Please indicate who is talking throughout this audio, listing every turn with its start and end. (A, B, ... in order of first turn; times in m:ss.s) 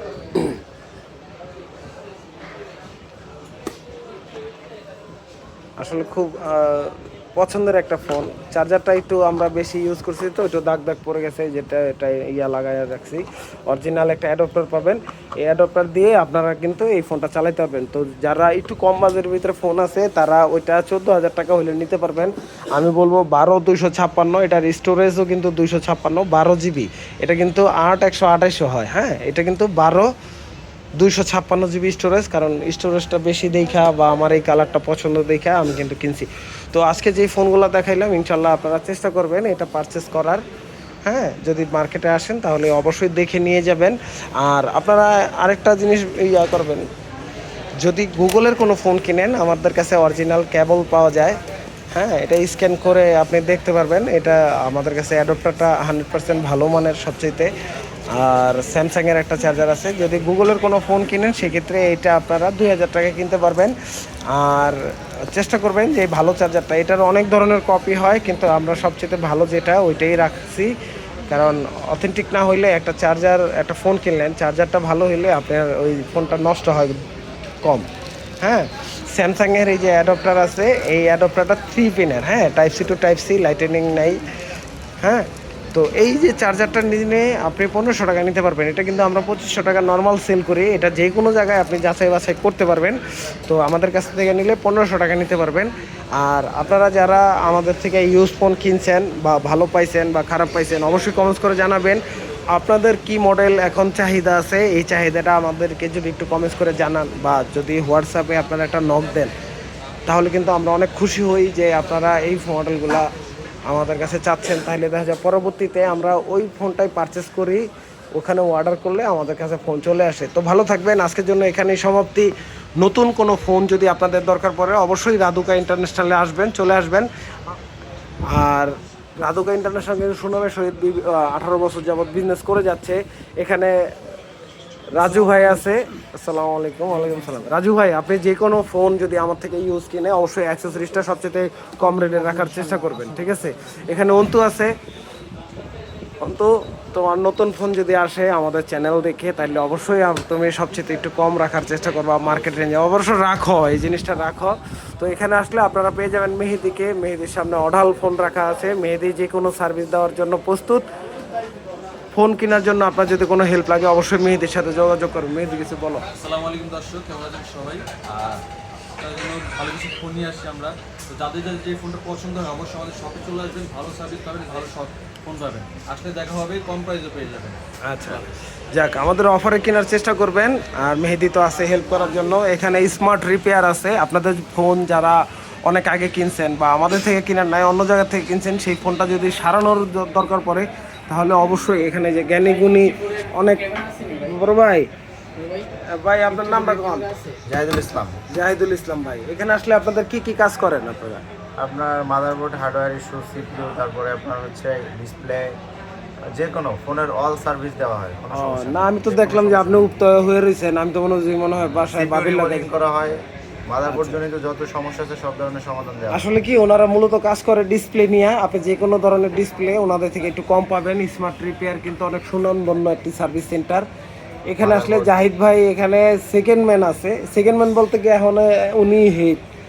0:05.8-0:30.1 A
0:31.0-0:40.4 A
0:41.0-0:46.9 A
0:47.8-0:51.4 A
0:51.9-0:57.5 A
0:58.1-1:03.7 A
1:04.3-1:10.7 A
1:11.3-1:17.0 A
1:18.4-1:24.2 A
1:25.0-1:49.3 A
1:50.1-1:53.1 A
1:53.7-2:07.6 A
2:08.3-2:13.8 A
2:14.9-2:24.7 A
2:26.2-2:40.8 A
2:42.1-2:46.0 A
2:46.2-2:48.4 B
2:49.0-2:57.6 B
2:57.8-3:14.9 A
3:15.8-3:17.1 A
3:17.4-3:18.2 C
3:18.3-3:21.2 A
3:21.6-3:25.6 C
3:26.3-3:30.0 C
3:28.3-3:32.7 A
3:31.6-3:36.2 C
3:36.1-3:43.8 A
3:44.5-3:49.4 A
3:44.6-3:45.1 C